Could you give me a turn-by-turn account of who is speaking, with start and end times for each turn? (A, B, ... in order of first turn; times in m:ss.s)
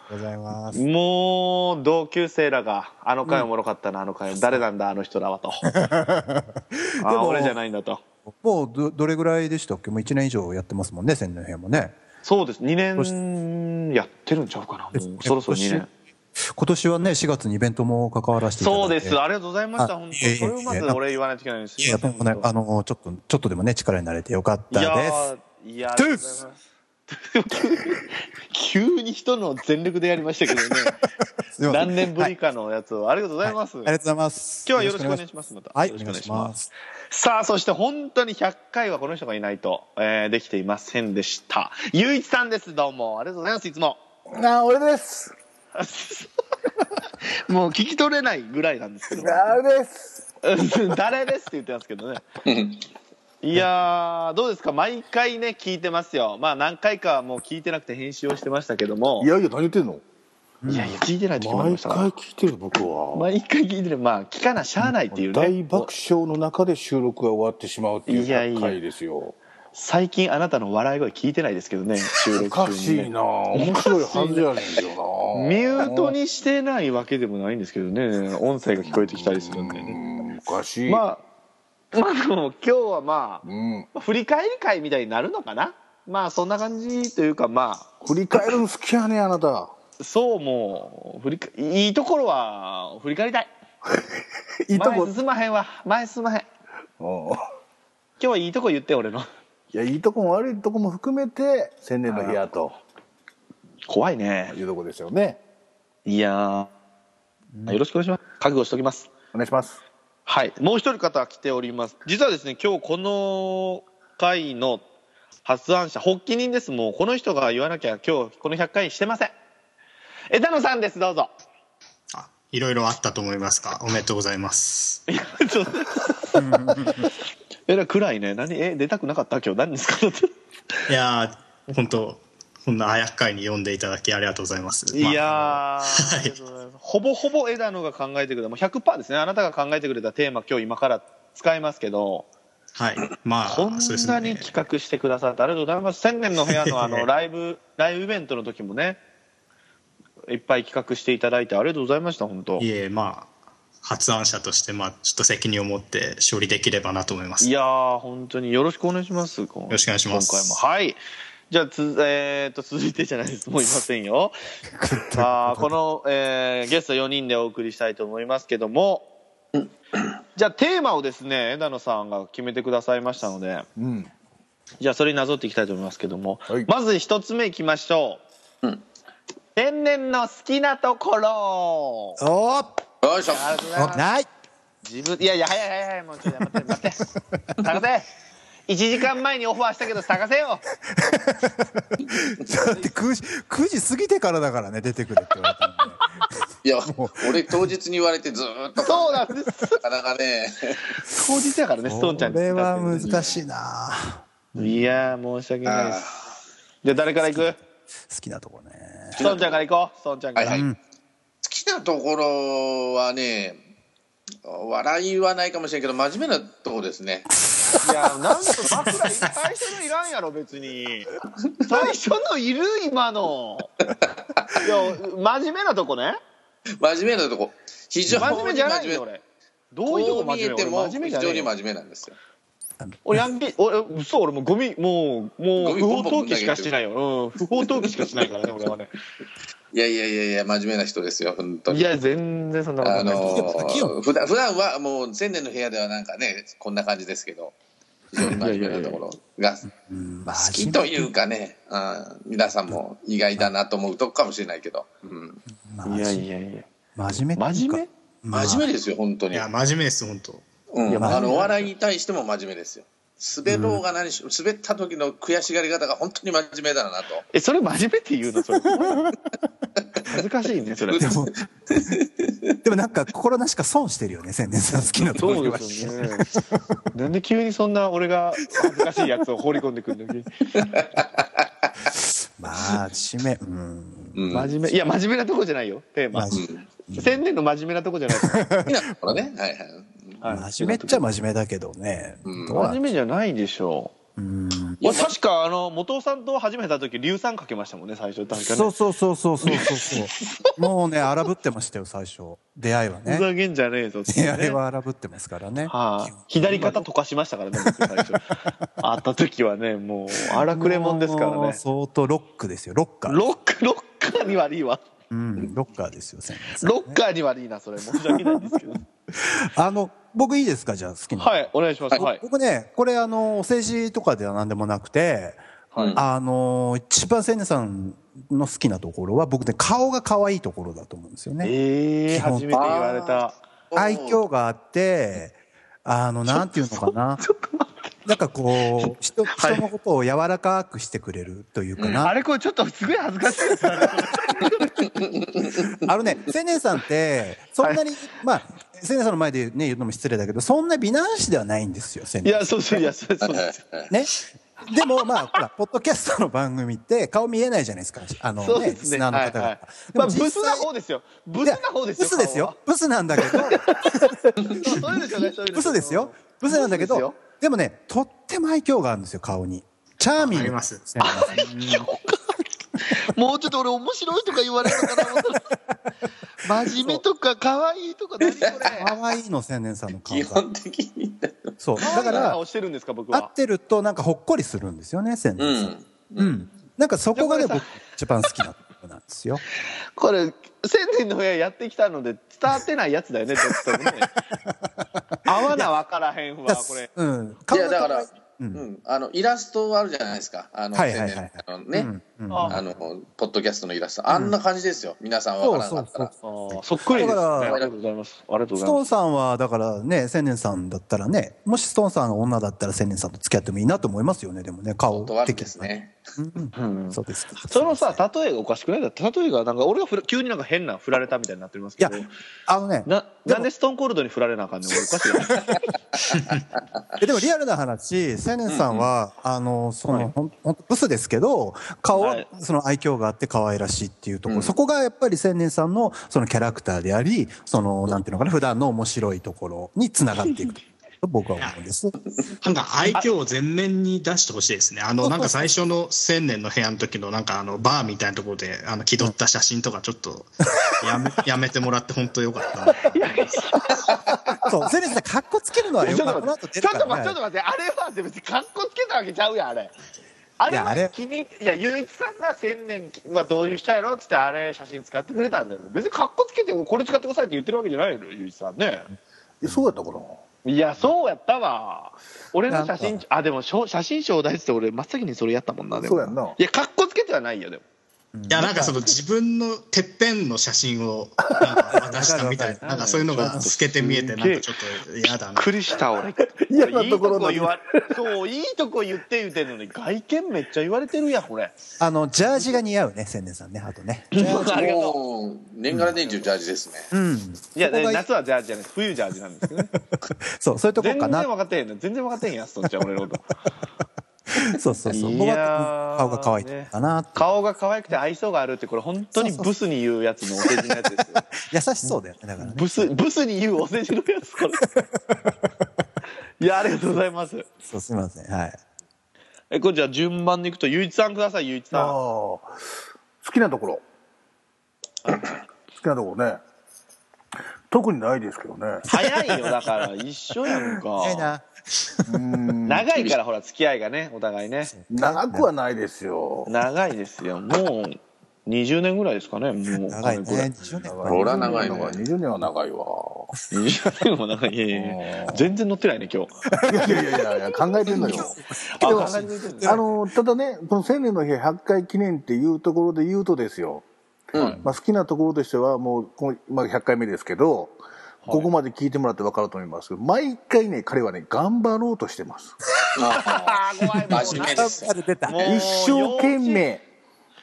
0:00.1-0:00.8 A
0:00.7-0:05.7 B
0:05.7-0:07.6 A
0:07.0-0:08.0 B
0:08.4-0:12.0 A
0:12.2-0:15.9 B
0:14.9-0:15.8 A
0:16.5-0:19.2 A
0:18.6-0:22.5 B
0:19.8-0:21.0 A
0:21.8-0:25.3 A
0:24.7-0:31.0 B
0:25.9-0:26.4 A
0:30.7-0:31.0 A
0:31.6-0:32.3 A
0:31.7-0:33.9 B
0:33.4-0:35.2 A
0:34.6-0:36.5 B
0:35.7-0:36.7 A
0:37.1-0:44.0 B
0:44.3-0:45.3 C
0:45.7-0:46.3 B
0:47.0-0:49.6 B
0:49.1-0:50.2 C
0:50.4-0:52.2 B
0:52.4-0:52.8 D
0:53.4-0:59.3 B
0:59.2-1:00.0 C
1:00.6-1:00.9 A
1:00.7-1:02.1 B
1:01.4-1:03.3 C
1:03.1-1:05.9 B
1:05.1-1:09.4 C
1:08.1-1:08.8 B
1:09.7-1:14.5 B
1:12.3-1:16.2 C
1:15.3-1:20.0 B
1:18.8-1:21.0 C
1:20.9-1:21.2 B
1:21.9-1:27.9 B
1:23.4-1:23.9 C
1:28.0-1:29.7 C
1:30.0-1:33.5 B
1:34.6-1:35.1 C
1:34.7-1:36.5 B
1:37.0-1:37.4 C
1:38.2-1:39.3 B
1:39.7-1:42.8 C
1:42.1-1:42.4 B
1:43.9-1:44.6 B
1:44.5-1:45.4 C
1:46.0-1:46.7 B
1:47.7-1:49.1 B
1:49.3-1:49.8 C
1:50.2-1:54.8 B
1:55.4-1:59.3 B
2:00.3-2:01.3 B
2:02.1-2:05.0 E
2:05.1-2:07.1 B
2:06.3-2:07.1 A
2:07.7-2:10.3 B
2:10.9-2:16.3 E
2:14.9-2:22.3 B
2:22.7-2:24.5 E
2:23.4-2:29.0 B
2:26.5-2:27.1 E
2:30.3-2:32.6 B
2:32.6-2:33.3 E
2:33.8-2:37.5 E
2:37.4-2:41.0 B
2:39.7-2:40.6 E
2:41.5-2:44.3 B
2:44.7-2:45.8 A
2:45.1-2:49.1 B
2:49.6-2:50.1 D
2:50.4-2:53.6 B
2:53.8-2:54.1 C
2:54.8-2:58.2 B
2:59.6-3:02.2 B
3:02.2-3:02.8 A
3:03.0-3:03.6 D
3:03.3-3:04.0 B
3:03.8-3:04.3 A
3:04.8-3:08.1 B
3:06.7-3:07.6 A
3:08.7-3:10.6 B
3:10.9-3:16.3 A
3:16.6-3:19.3 D
3:16.9-3:17.6 A
3:18.8-3:19.8 B
3:19.8-3:20.8 D
3:21.1-3:23.3 B
3:21.8-3:24.7 A
3:23.0-3:23.4 D
3:24.5-3:26.0 B
3:25.6-3:26.3 D
3:26.8-3:27.6 B
3:27.2-3:29.2 A
3:29.2-3:29.6 D
3:29.2-3:30.6 B
3:30.4-3:30.6 D
3:30.4-3:30.8 A
3:31.4-3:33.6 D
3:34.4-3:37.8 D
3:37.8-3:43.7 B
3:41.4-3:41.9 D
3:43.8-3:44.7 D
3:44.6-3:46.2 B
3:46.8-3:49.0 D
3:48.2-3:49.2 B
3:49.7-3:51.5 B
3:49.8-3:52.2 D
3:52.8-3:53.2 A
3:53.0-3:58.9 B
3:55.6-3:56.7 D
3:57.6-3:58.2 D
3:59.7-4:01.9 D
4:01.7-4:03.7 B
4:02.8-4:07.5 D
4:03.4-4:03.9 A
4:08.1-4:09.7 D
4:08.2-4:09.0 B
4:09.7-4:11.1 A
4:10.3-4:15.4 D
4:15.5-4:16.2 A
4:15.8-4:16.7 B
4:17.0-4:18.7 A
4:17.4-4:17.9 B
4:18.3-4:19.5 D
4:19.3-4:20.5 E
4:20.7-4:27.2 D
4:20.9-4:21.7 B
4:21.0-4:21.3 A
4:23.5-4:23.8 A
4:27.3-4:29.1 B
4:28.8-4:29.2 A
4:30.0-4:31.1 B
4:30.9-4:32.5 D
4:31.0-4:32.0 A
4:32.6-4:36.8 A
4:35.2-4:36.3 B
4:36.9-4:40.3 B
4:40.5-4:41.4 D
4:41.9-4:44.5 A
4:44.1-4:44.6 D
4:44.3-4:48.4 B
4:46.1-4:47.2 A
4:46.3-4:46.6 D
4:48.2-4:49.2 A
4:48.6-4:50.2 D
4:50.2-4:51.0 B
4:50.2-4:53.0 A
4:52.2-4:52.7 D
4:52.5-4:53.9 B
4:54.2-4:54.8 A
4:54.8-4:58.7 B
4:54.8-4:55.1 D
4:58.4-5:03.3 A
4:59.4-5:00.5 B
5:03.0-5:04.6 B
5:04.1-5:06.9 A
5:05.6-5:11.6 B
5:07.5-5:08.2 A
5:10.3-5:13.3 A
5:13.0-5:14.8 B
5:15.1-5:17.0 A
5:16.6-5:18.8 B
5:19.1-5:21.4 A
5:21.2-5:22.2 B
5:21.9-5:25.4 A
5:25.7-5:26.0 B
5:25.7-5:26.0 D
5:25.9-5:31.5 A
5:31.4-5:33.4 B
5:32.1-5:32.6 A
5:32.5-5:34.2 D
5:33.7-5:37.2 A
5:36.3-5:37.9 B
5:38.0-5:42.1 A
5:38.7-5:39.7 B
5:41.8-5:42.1 D
5:42.0-5:45.0 B
5:44.8-5:45.8 D
5:45.8-5:52.5 A
5:52.2-5:53.6 B
5:53.2-5:53.9 D
5:53.9-5:54.1 A
5:54.6-6:00.6 A
5:58.4-6:02.6 B
6:01.4-6:11.5 A
6:03.2-6:07.2 B
6:10.2-6:11.8 E
6:11.0-6:15.4 B
6:14.8-6:15.1 A
6:16.4-6:18.9 B
6:16.6-6:17.0 A
6:18.3-6:18.7 D
6:18.6-6:20.4 A
6:20.1-6:22.3 D
6:21.6-6:22.4 A
6:21.8-6:23.3 B
6:23.1-6:29.4 A
6:25.4-6:26.4 D
6:27.1-6:27.7 B
6:30.0-6:34.1 B
6:34.3-6:35.7 A
6:35.2-6:36.9 B
6:36.5-6:38.6 A
6:37.5-6:41.9 D
6:40.7-6:42.7 A
6:42.3-6:42.6 B
6:42.5-6:46.1 D
6:44.1-6:44.3 A
6:45.4-6:47.6 A
6:46.2-6:48.9 B
6:46.9-6:47.7 D
6:48.6-6:58.0 A
6:54.9-6:56.1 D
6:56.5-7:02.1 B
7:02.5-7:03.5 A
7:02.8-7:05.7 B
7:05.3-7:05.6 D
7:07.0-7:22.0 A
7:08.5-7:08.9 D
7:11.9-7:12.3 B
7:14.2-7:14.6 D
7:22.4-7:33.4 E
7:25.0-7:25.4 A
7:32.8-7:33.9 B
7:34.4-7:37.2 A
7:35.8-7:39.7 B
7:40.4-7:48.9 B
7:40.5-7:40.9 A
7:49.4-7:50.2 C
7:49.4-7:49.7 A
7:50.4-7:57.6 B
7:52.5-7:53.0 A
7:55.7-7:56.4 C
7:58.1-7:58.9 A
7:58.3-8:05.5 E
8:01.7-8:03.5 A
8:02.6-8:04.5 B
8:05.3-8:11.5 B
8:06.4-8:08.0 C
8:11.8-8:14.5 A
8:14.1-8:15.0 B
8:14.4-8:16.9 D
8:15.7-8:16.0 A
8:16.0-8:16.3 B
8:16.9-8:18.0 A
8:17.5-8:19.7 B
8:19.7-8:21.3 A
8:20.8-8:23.3 B
8:24.3-8:27.3 A
8:24.9-8:31.2 B
8:29.2-8:29.5 A
8:30.4-8:30.7 A
8:31.5-8:32.9 A
8:31.8-8:34.7 B
8:34.6-8:35.5 A
8:36.4-8:37.5 B
8:37.6-8:38.6 A
8:39.5-8:42.0 B
8:41.7-8:42.5 C
8:43.2-8:43.8 C
8:45.7-8:46.4 C
8:47.7-8:48.9 C
8:48.9-8:51.3 B
8:50.9-8:52.2 A
8:52.1-8:52.9 C
8:52.6-8:54.7 B
8:54.6-8:55.5 A
8:54.9-8:56.5 C
8:56.5-9:00.5 B
8:59.9-9:01.8 A
9:00.7-9:03.3 C
9:01.0-9:02.0 D
9:03.5-9:07.2 B
9:04.7-9:05.4 C
9:06.5-9:07.2 A
9:06.7-9:13.8 C
9:07.8-9:10.0 A
9:07.8-9:09.8 B
9:14.3-9:14.6 D
9:14.6-9:22.6 C
9:18.2-9:18.5 B
9:23.0-9:24.9 D
9:23.1-9:26.7 B
9:24.2-9:25.7 A
9:25.4-9:26.8 C